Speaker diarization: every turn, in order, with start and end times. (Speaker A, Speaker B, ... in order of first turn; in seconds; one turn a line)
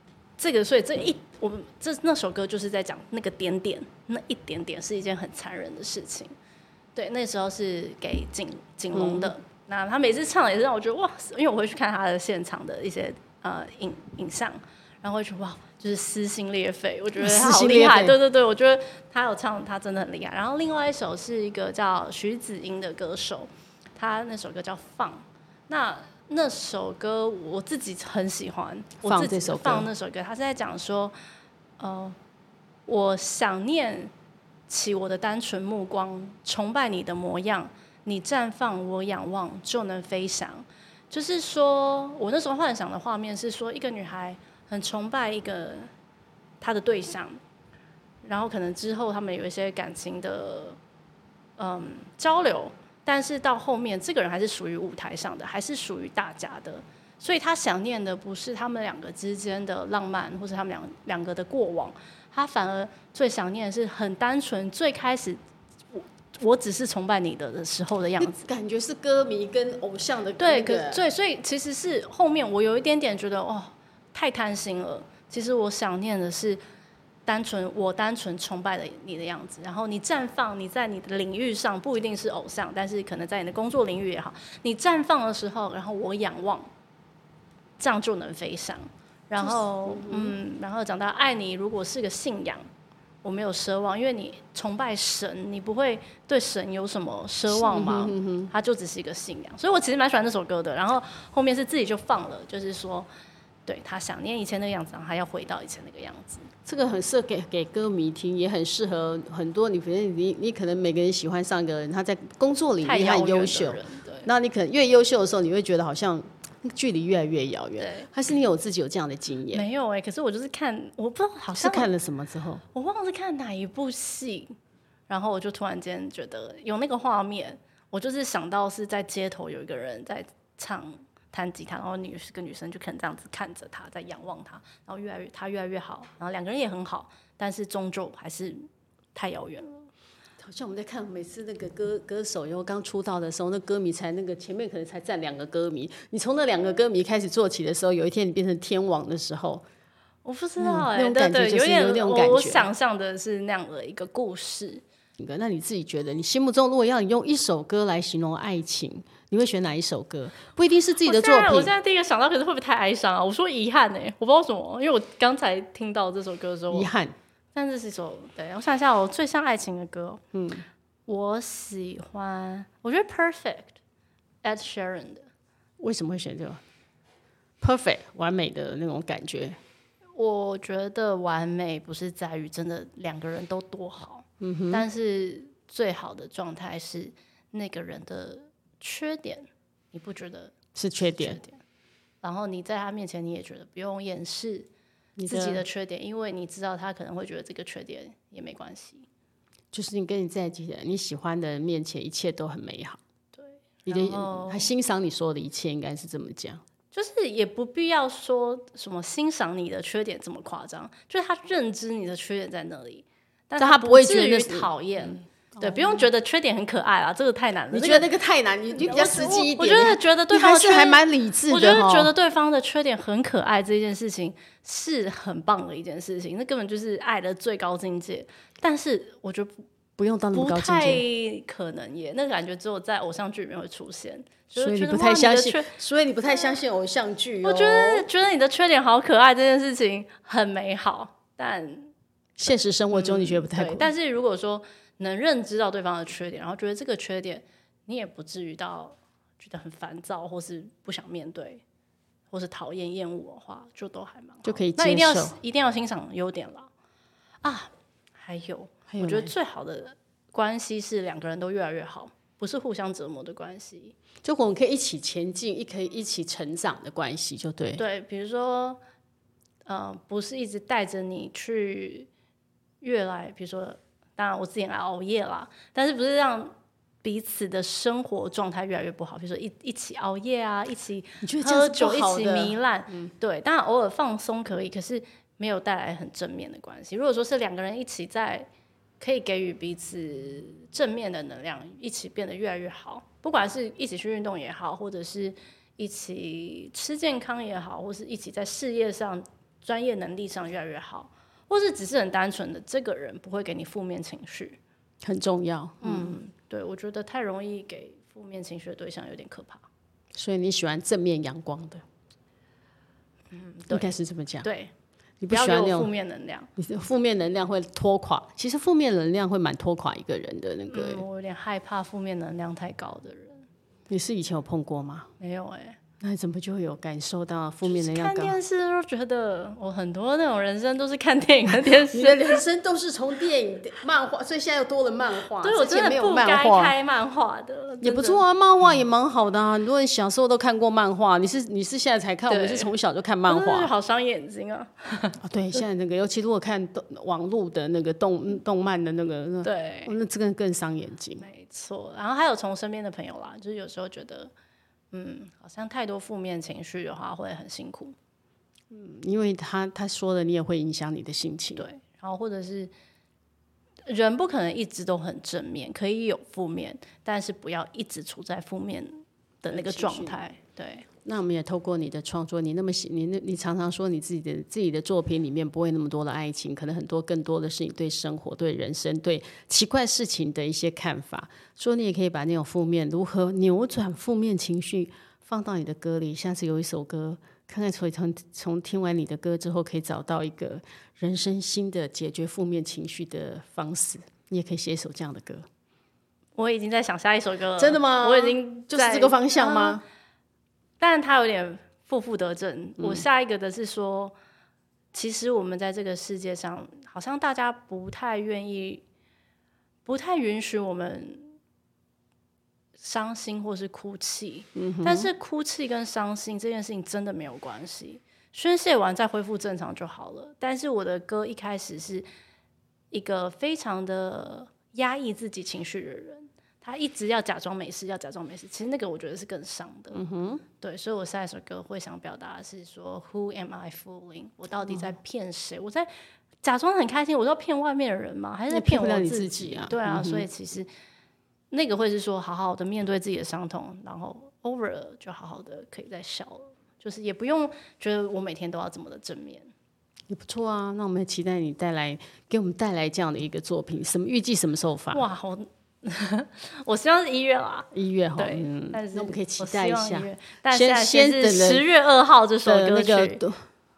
Speaker A: 0.4-6.3
Speaker A: 7.0-31.1
Speaker B: 8.9-9.3
Speaker B: 17.2-18.2
Speaker B: 29.0-29.9
Speaker A: 31.8-32.2
Speaker A: 32.9-34.1
Speaker A: 34.7-45.9
Speaker A: 46.6-47.4
Speaker A: 48.2-50.8
Speaker A: 51.6-65.4
Speaker A: 65.9-68.5
Speaker B: 68.2-71.0
Speaker A: 70.4-76.6
Speaker A: 77.3-86.7
Speaker A: 87.8-92.7
Speaker B: 89.4-90.4
Speaker A: 93.2-103.1
Speaker B: 97.5-98.5
Speaker A: 103.7-106.5
Speaker B: 106.7-119.7
Speaker A: 112.8-114.3
Speaker A: 117.8-118.1
Speaker A: 119.5-121.9
Speaker B: 121.5-122.6
Speaker A: 122.7-124.5
Speaker A: 125.1-139.9
Speaker B: 140.4-149.7
Speaker A: 150.2-154.8
Speaker B: 150.6-152.7
Speaker B: 155.2-161.7
Speaker A: 161.0-166.9
Speaker B: 166.7-167.2
Speaker A: 167.5-170.2
Speaker B: 170.3-170.7
Speaker A: 171.1-173.8
Speaker A: 174.4-175.3
Speaker B: 175.8-176.6
Speaker B: 177.6-179.6
Speaker A: 180.2-191.6
Speaker B: 184.4-184.8
Speaker B: 190.8-191.4
Speaker A: 192.2-194.7
Speaker B: 195.2-195.6
Speaker A: 195.3-199.1
Speaker B: 199.7-203.0
Speaker A: 203.4-204.7
Speaker B: 203.9-206.6
Speaker A: 206.9-218.1
Speaker B: 213.6-216.1
Speaker B: 217.7-222.1
Speaker A: 218.7-229.6
Speaker B: 230.0-231.0
Speaker A: 230.3-235.7
Speaker B: 234.6-238.1
Speaker A: 237.4-241.9
Speaker B: 242.4-243.9
Speaker A: 242.9-251.6
Speaker A: 252.3-256.7
Speaker B: 254.4-255.4
Speaker A: 257.4-263.9
Speaker B: 258.9-259.3
Speaker B: 264.2-267.8
Speaker A: 267.8-268.8
Speaker A: 269.6-272.1
Speaker A: 272.8-288.5
Speaker B: 281.2-283.1
Speaker A: 289.0-304.6
Speaker B: 305.0-306.2
Speaker A: 305.8-309.6
Speaker B: 310.1-311.8
Speaker A: 313.3-313.9
Speaker B: 313.7-314.5
Speaker A: 314.4-314.7
Speaker B: 315.2-315.9
Speaker A: 315.3-316.5
Speaker B: 316.6-321.1
Speaker A: 320.7-323.4
Speaker B: 323.9-325.1
Speaker A: 325.2-325.8
Speaker B: 326.0-328.4
Speaker A: 327.6-332.4
Speaker B: 331.9-336.8
Speaker A: 335.4-338.2
Speaker B: 337.8-343.7
Speaker A: 342.3-342.7
Speaker A: 343.3-345.2
Speaker B: 345.2-351.3
Speaker A: 349.4-349.9
Speaker A: 351.2-354.3
Speaker A: 354.9-357.9
Speaker B: 358.7-361.7
Speaker A: 361.6-362.7
Speaker A: 363.9-370.9
Speaker B: 369.5-370.2
Speaker B: 371.1-395.5
Speaker A: 396.4-399.8
Speaker B: 397.6-399.8
Speaker A: 400.8-404.1
Speaker B: 402.8-403.1
Speaker A: 404.9-408.8
Speaker A: 409.9-411.4
Speaker A: 412.8-422.1
Speaker B: 414.6-415.1
Speaker A: 422.9-430.0
Speaker B: 429.9-430.4
Speaker A: 430.6-435.9
Speaker B: 434.7-434.9
Speaker A: 436.4-440.7
Speaker B: 438.5-440.3
Speaker A: 441.5-449.5
Speaker B: 450.1-455.1
Speaker A: 454.9-463.2
Speaker B: 457.7-461.7
Speaker B: 462.4-463.4